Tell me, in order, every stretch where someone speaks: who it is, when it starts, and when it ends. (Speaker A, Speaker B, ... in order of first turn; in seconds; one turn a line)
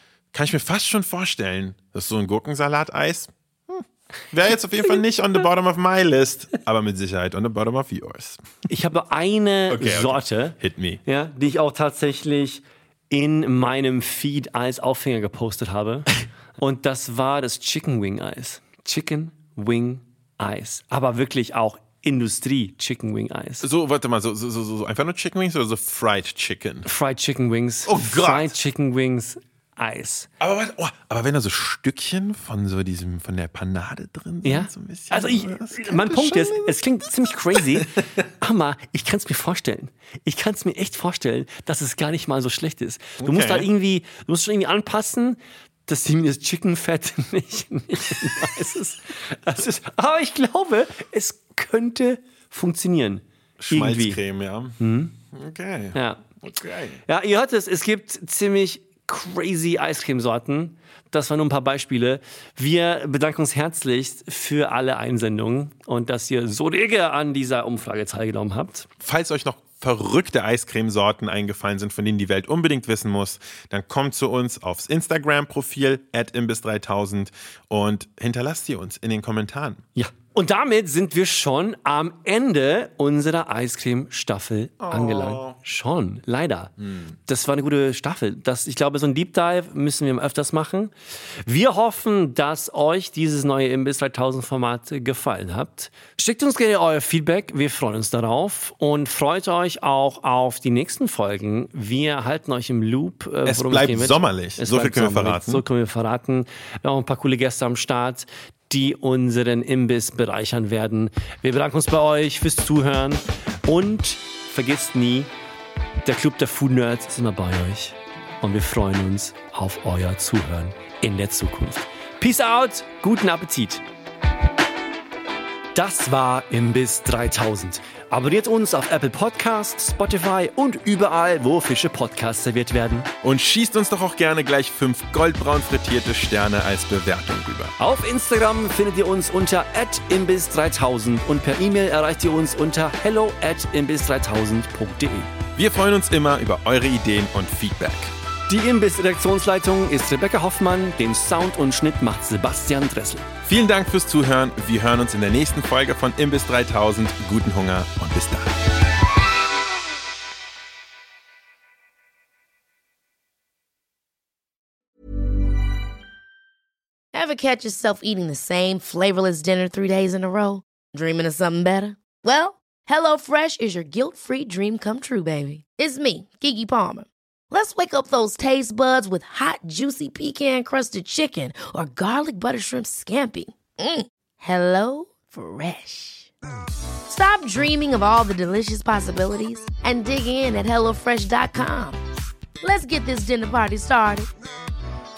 Speaker A: 0.3-8.4
Speaker B: 8.7-23.6
Speaker A: 9.7-11.0
Speaker A: 23.6-26.9
Speaker B: 26.8-30.3
Speaker A: 27.9-28.5
Speaker A: 30.4-36.7
Speaker B: 34.4-54.2
Speaker A: 37.5-37.9
Speaker A: 43.2-43.7
Speaker A: 53.6-54.8
Speaker B: 54.8-55.1
Speaker A: 55.3-57.0
Speaker B: 55.9-56.2
Speaker B: 57.1-68.9
Speaker A: 69.0-79.8
Speaker B: 80.0-115.3
Speaker A: 84.8-85.6
Speaker A: 86.8-87.1
Speaker A: 103.5-105.6
Speaker B: 116.0-123.8
Speaker B: 125.7-133.1
Speaker A: 133.2-137.7
Speaker B: 137.8-145.3
Speaker A: 145.6-148.1
Speaker B: 148.5-153.2
Speaker A: 153.4-158.6
Speaker C: 167.1-186.3
Speaker C: 187.1-192.0
Speaker C: 192.6-194.3